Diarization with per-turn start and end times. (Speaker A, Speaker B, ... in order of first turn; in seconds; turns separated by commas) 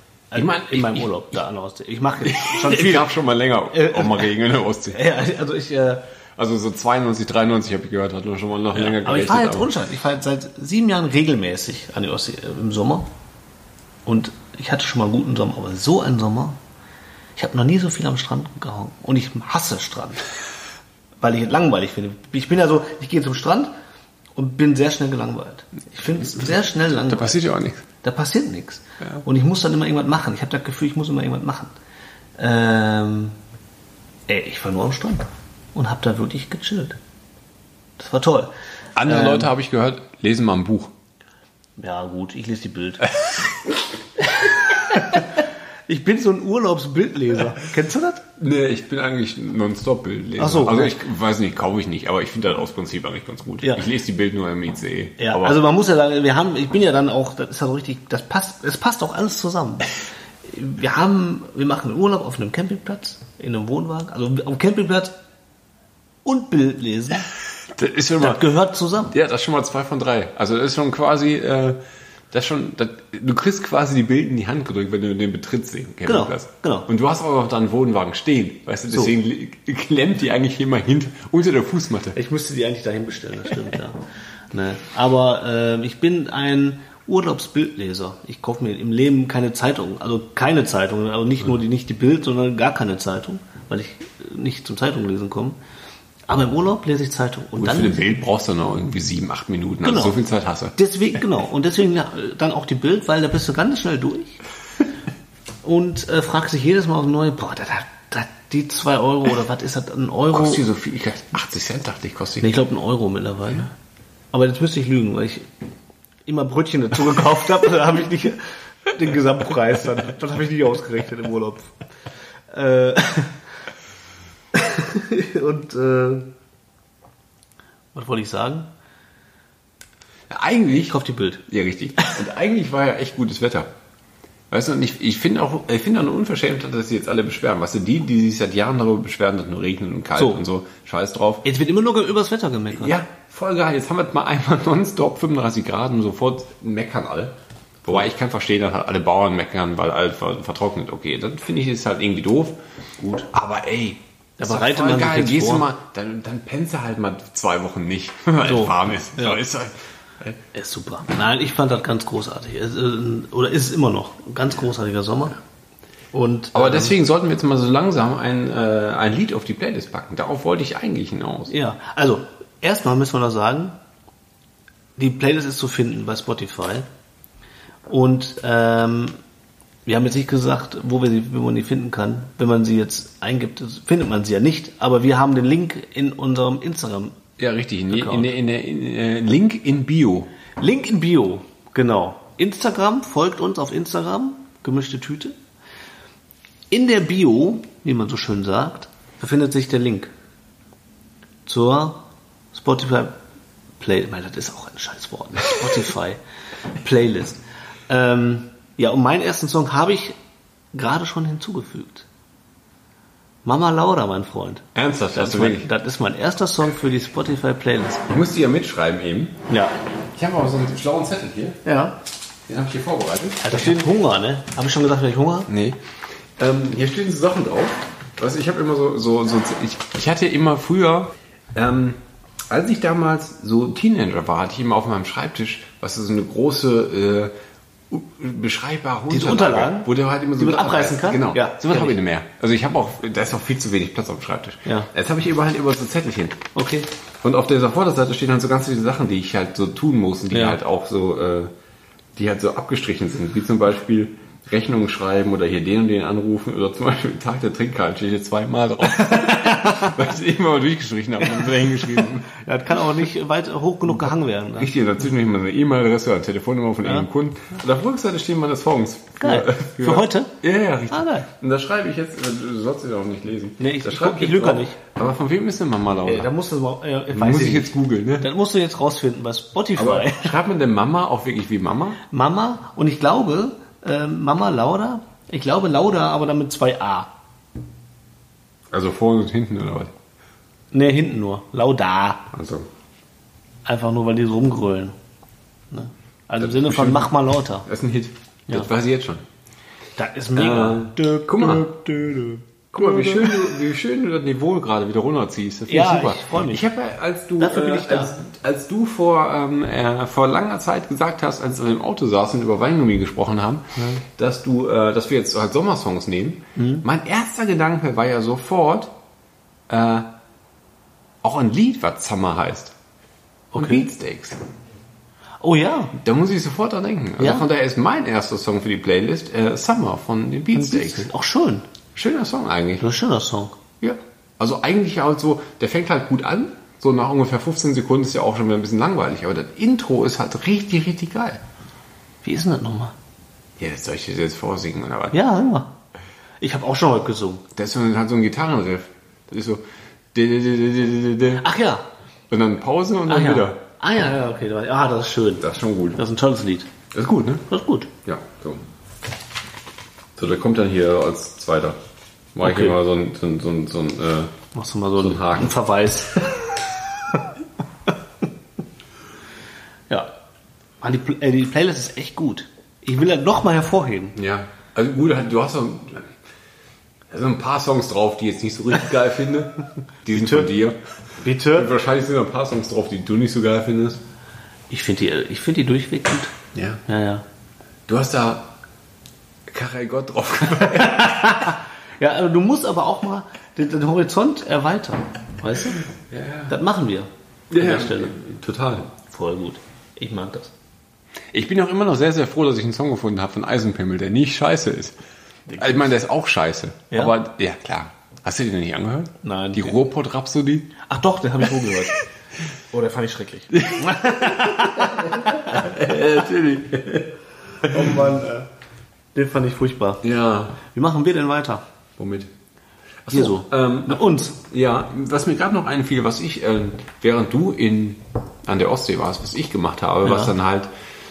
Speaker A: 0.3-3.1, Speaker B: 0.3-1.4, Speaker B: 2.2-5.0, Speaker A: 3.7-4.3, Speaker A: 4.9-6.0, Speaker B: 6.4-9.7, Speaker A: 8.7-13.1, Speaker A: 14.1-16.6, Speaker A: 17.4-20.2, Speaker A: 21.2-23.7, Speaker A: 24.4-27.4, Speaker B: 26.4-27.9, Speaker A: 28.0-31.7, Speaker A: 32.4-33.4, Speaker A: 34.3-37.0, Speaker A: 38.0-38.5, Speaker B: 39.0-40.9, Speaker A: 39.0-39.5, Speaker A: 41.8-43.1, Speaker A: 44.2-48.2, Speaker B: 48.4-55.6, Speaker A: 50.4-51.0, Speaker A: 55.2-65.2, Speaker A: 66.2-67.3, Speaker B: 67.7-68.4, Speaker A: 68.2-69.1, Speaker B: 69.1-71.8, Speaker B: 72.3-82.2, Speaker A: 76.0-76.9, Speaker A: 82.1-84.0, Speaker A: 84.5-95.6, Speaker A: 96.3-98.0, Speaker B: 97.6-100.8, Speaker A: 99.8-100.2, Speaker A: 100.8-104.4, Speaker A: 105.6-110.6, Speaker B: 110.3-112.5, Speaker A: 112.4-113.7, Speaker A: 114.3-115.5, Speaker A: 116.2-121.7, Speaker A: 122.5-123.4, Speaker A: 124.5-126.3, Speaker A: 127.9-128.7, Speaker B: 130.3-133.7, Speaker A: 130.9-131.4, Speaker B: 134.5-141.4, Speaker A: 140.2-140.4, Speaker A: 141.4-142.9, Speaker B: 142.7-152.6, Speaker A: 153.0-153.2, Speaker B: 153.2-160.4, Speaker A: 154.4-155.7, Speaker A: 158.4-159.4, Speaker A: 160.5-165.4, Speaker A: 166.1-166.9, Speaker B: 166.5-171.5, Speaker A: 171.5-173.8, Speaker A: 175.0-176.9, Speaker A: 177.9-179.2, Speaker A: 179.8-187.2, Speaker B: 187.4-190.3, Speaker A: 187.9-188.3, Speaker A: 190.6-195.3, Speaker A: 196.7-200.1, Speaker A: 201.4-202.0, Speaker A: 202.5-203.2, Speaker A: 203.8-206.2, Speaker A: 206.8-210.1, Speaker A: 210.7-212.1, Speaker A: 213.4-218.1, Speaker B: 214.7-215.7, Speaker B: 218.1-219.4, Speaker A: 219.5-219.7, Speaker B: 220.1-221.6, Speaker A: 221.6-222.0, Speaker B: 222.5-223.9, Speaker A: 223.4-225.5, Speaker B: 225.5-237.3, Speaker B: 237.9-246.5, Speaker A: 239.1-242.0, Speaker A: 246.5-246.9, Speaker B: 247.2-251.5, Speaker A: 250.3-250.6, Speaker B: 252.1-262.3, Speaker A: 258.9-260.0, Speaker A: 261.2-264.7, Speaker B: 264.0-276.3, Speaker A: 269.2-270.3, Speaker A: 270.9-271.3, Speaker A: 273.6-274.8, Speaker A: 276.0-280.4, Speaker B: 277.1-278.3, Speaker B: 279.8-282.0, Speaker A: 282.1-287.1, Speaker B: 288.7-289.9, Speaker A: 290.7-292.3, Speaker B: 292.3-292.7, Speaker A: 293.6-294.9, Speaker A: 295.7-297.6, Speaker B: 296.4-297.1, Speaker B: 297.6-299.2, Speaker A: 300.0-303.6, Speaker B: 300.3-301.7, Speaker B: 302.7-318.9, Speaker A: 305.7-306.6, Speaker A: 307.4-308.1, Speaker A: 313.8-314.0, Speaker A: 316.6-316.8, Speaker B: 319.7-320.1, Speaker B: 321.2-322.7, Speaker A: 323.5-323.9, Speaker B: 323.5-324.4, Speaker A: 325.4-325.9, Speaker B: 325.9-331.1, Speaker A: 327.2-327.4, Speaker A: 330.5-331.6, Speaker B: 331.9-332.9, Speaker A: 332.8-333.6, Speaker B: 333.8-341.4, Speaker A: 342.2-342.9, Speaker B: 343.6-345.2, Speaker A: 345.1-345.7, Speaker A: 346.4-347.4, Speaker B: 347.5-351.4, Speaker A: 351.4-351.8, Speaker B: 352.3-353.6, Speaker A: 353.1-356.7, Speaker B: 355.4-356.0, Speaker B: 356.9-357.5, Speaker A: 357.5-357.9, Speaker B: 358.0-358.6, Speaker B: 360.1-361.8, Speaker B: 362.3-364.3, Speaker A: 362.4-362.8, Speaker A: 364.5-367.2, Speaker B: 365.0-365.6, Speaker A: 370.8-374.1, Speaker B: 374.1-376.1, Speaker B: 377.1-380.8, Speaker A: 380.1-380.5, Speaker A: 381.2-381.7, Speaker B: 381.4-384.0, Speaker A: 384.7-386.3, Speaker B: 386.5-386.8, Speaker A: 386.9-387.2, Speaker B: 387.9-388.5, Speaker B: 389.5-391.5, Speaker A: 390.7-395.9, Speaker B: 395.9-396.5, Speaker A: 396.5-398.2, Speaker B: 397.5-398.9, Speaker A: 399.0-400.5, Speaker B: 401.3-405.0, Speaker A: 405.5-405.9, Speaker B: 405.6-410.8, Speaker A: 409.2-409.8, Speaker A: 410.8-412.0, Speaker A: 412.7-415.7, Speaker B: 413.5-417.1, Speaker A: 417.6-418.5, Speaker B: 417.7-418.0, Speaker A: 419.1-420.0, Speaker B: 420.0-420.6, Speaker A: 420.6-421.6, Speaker B: 422.0-422.3, Speaker B: 423.0-430.7, Speaker A: 423.1-424.4, Speaker A: 430.0-430.3